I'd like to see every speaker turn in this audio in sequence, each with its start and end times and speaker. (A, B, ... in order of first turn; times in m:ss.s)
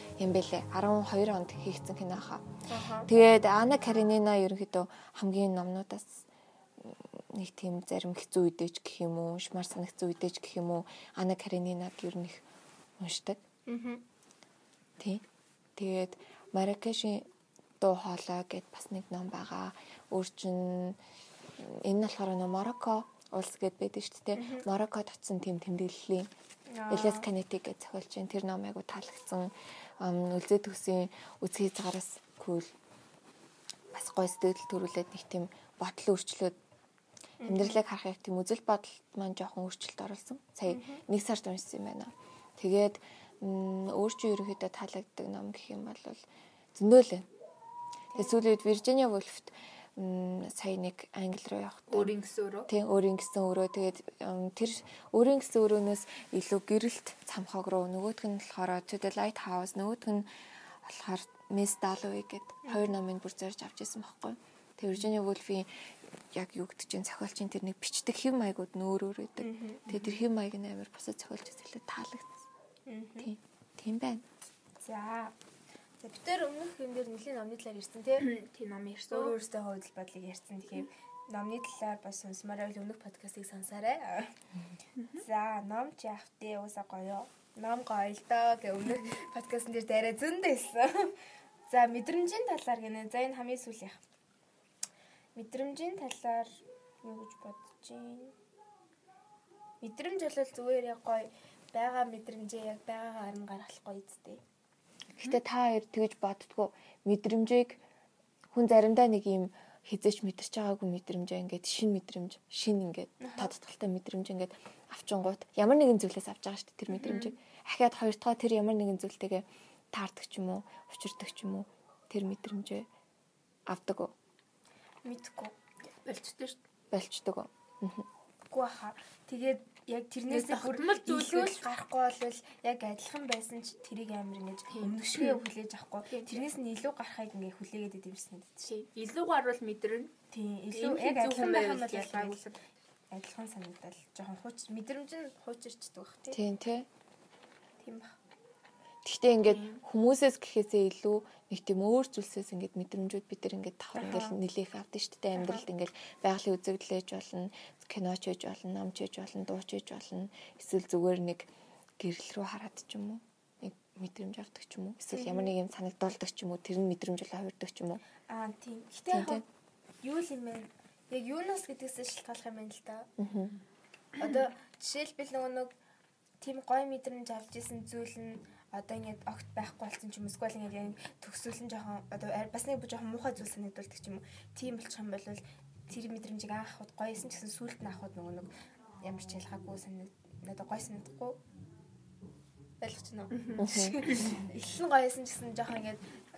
0:00.2-0:02.4 A
0:02.7-0:03.1 B
0:03.0-0:06.2 A
0:06.8-0:12.4 A
0:13.0-0:13.4 A
0:13.7-0:14.0 B
0:15.0-0:15.2 A
0:15.8-0:17.3 A
0:17.8-0:21.0 A
0:21.6-0:26.3 A
0:24.3-0:24.6 B
0:26.7-0:27.3 B
0:26.9-0:32.7 A
0:33.9-0:36.6 A
0:37.4-0:37.8 B
0:37.4-0:46.2 A
0:40.7-0:41.0 B
0:46.7-0:47.3 A
0:48.1-0:52.1 A
0:51.9-0:52.7 C
0:52.7-1:00.3 A
1:00.8-1:05.7 A
1:02.6-1:02.9 B
1:06.3-1:12.5 A
1:09.4-1:09.8 B
1:09.9-1:10.2 C
1:12.9-1:13.3 B
1:13.2-1:14.2 A
1:14.8-1:15.3 B
1:16.0-1:18.3 B
1:18.2-1:19.4 C
1:19.1-1:24.3 B
1:25.0-1:25.2 C
1:25.2-1:31.1 B
1:31.7-1:34.0 B
1:35.3-1:38.3 B
1:39.8-1:44.4 B
1:45.2-1:47.8 A
1:48.5-2:02.9 A
1:53.2-1:53.5 B
1:57.0-1:57.3 C
2:03.7-2:04.1 A
2:05.0-2:05.5 B
2:06.0-2:06.6 C
2:06.9-2:08.1 A
2:08.5-2:18.7 B
2:10.3-2:11.6 C
2:14.7-2:15.4 C
2:16.1-2:16.4 C
2:18.6-2:20.1 C
2:20.3-2:22.4 B
2:20.7-2:22.6 C
2:23.1-2:26.4 B
2:26.3-2:26.9 A
2:27.8-2:28.2 B
2:29.0-2:48.0 A
2:29.4-2:29.8 C
2:34.0-2:34.4 B
2:35.4-2:35.6 B
2:45.1-2:45.5 B
2:48.3-2:49.4 B
2:49.1-2:49.4 A
2:50.0-2:53.1 B
2:53.2-2:53.5 A
2:54.2-2:55.7 B
2:56.4-3:08.5 B
3:09.0-3:11.4 B
3:12.8-3:16.0 B
3:13.4-3:13.6 C
3:13.6-3:14.3 A